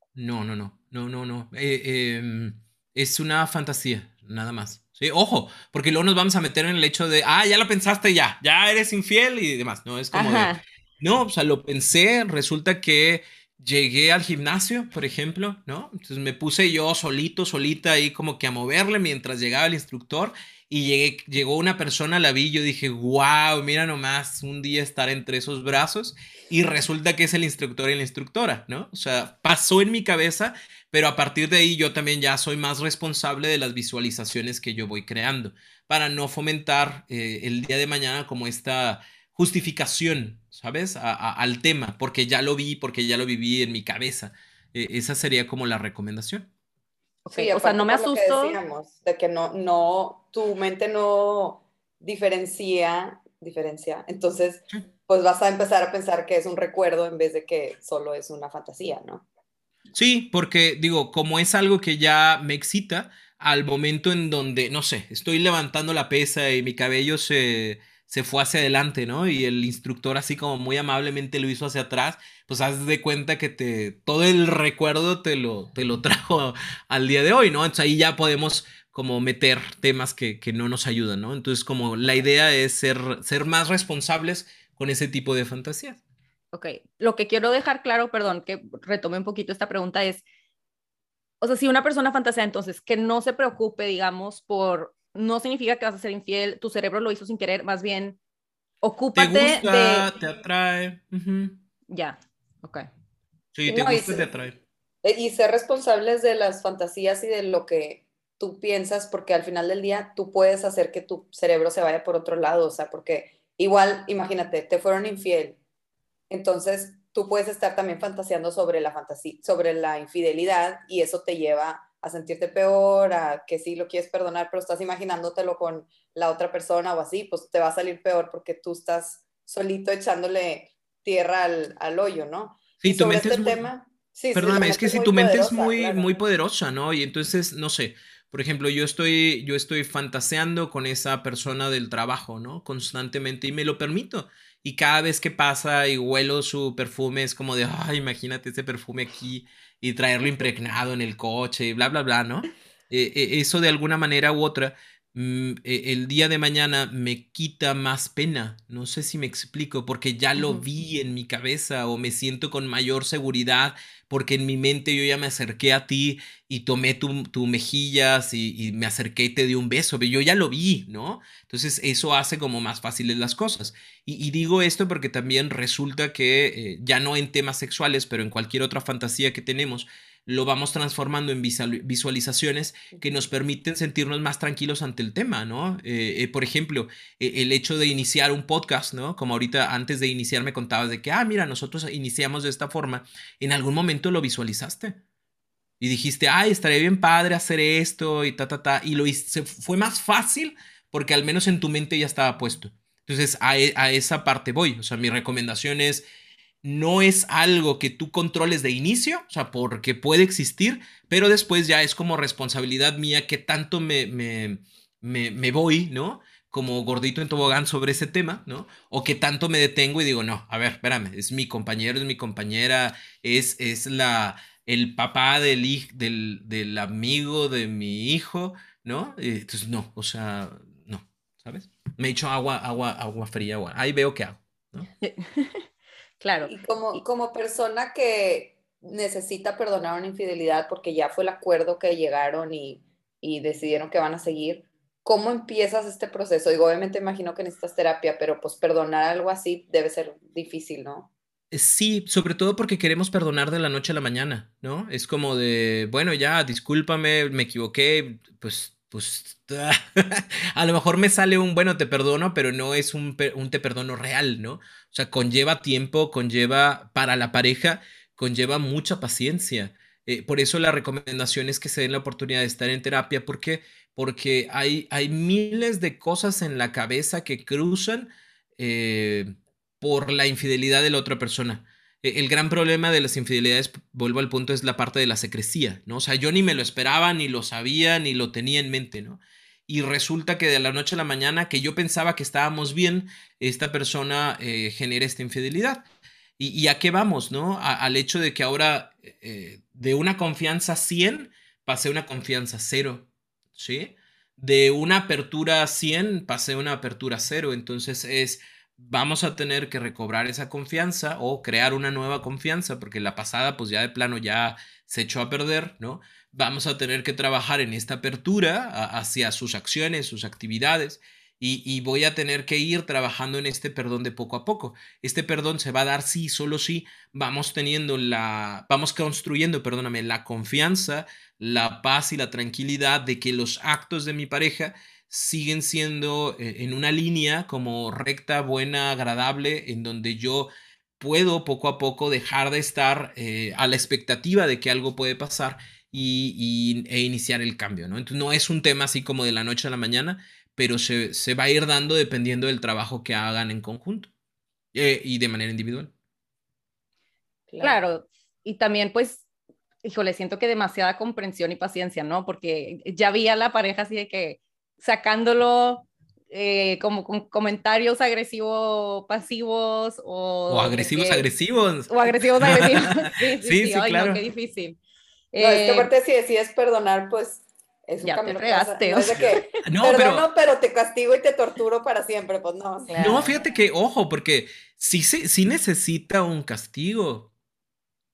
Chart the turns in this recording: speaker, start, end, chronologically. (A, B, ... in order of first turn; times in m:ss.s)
0:00.2-0:46.5 A
0:10.1-0:10.6 B
0:47.2-0:48.6 B
0:47.3-0:59.2 C
0:59.9-1:26.0 A
1:26.5-1:30.2 B
1:31.4-1:38.2 B
1:38.8-1:40.1 B
1:39.1-1:41.6 A
1:41.9-1:42.9 B
1:43.5-1:44.6 A
1:43.7-1:44.3 C
1:45.0-1:55.6 C
1:56.3-2:16.2 C
2:12.8-2:13.7 A
2:14.3-3:15.0 A
2:40.4-2:40.6 B
3:15.8-3:26.0 A
3:26.6-3:54.9 A
3:55.0-3:55.7 B
3:56.2-3:57.0 B
3:56.4-4:11.1 C
4:11.5-4:55.8 A
4:56.4-5:54.1 A
5:54.7-5:55.9 A
5:57.5-5:57.8 C
5:57.6-5:59.2 B
5:59.8-6:11.3 B
6:10.5-6:14.2 A
6:11.9-6:14.8 B
6:15.3-6:15.9 B
6:15.4-6:23.3 C
6:18.0-6:19.6 B
6:19.6-6:20.3 A
6:22.9-6:23.3 B
6:23.0-6:27.3 A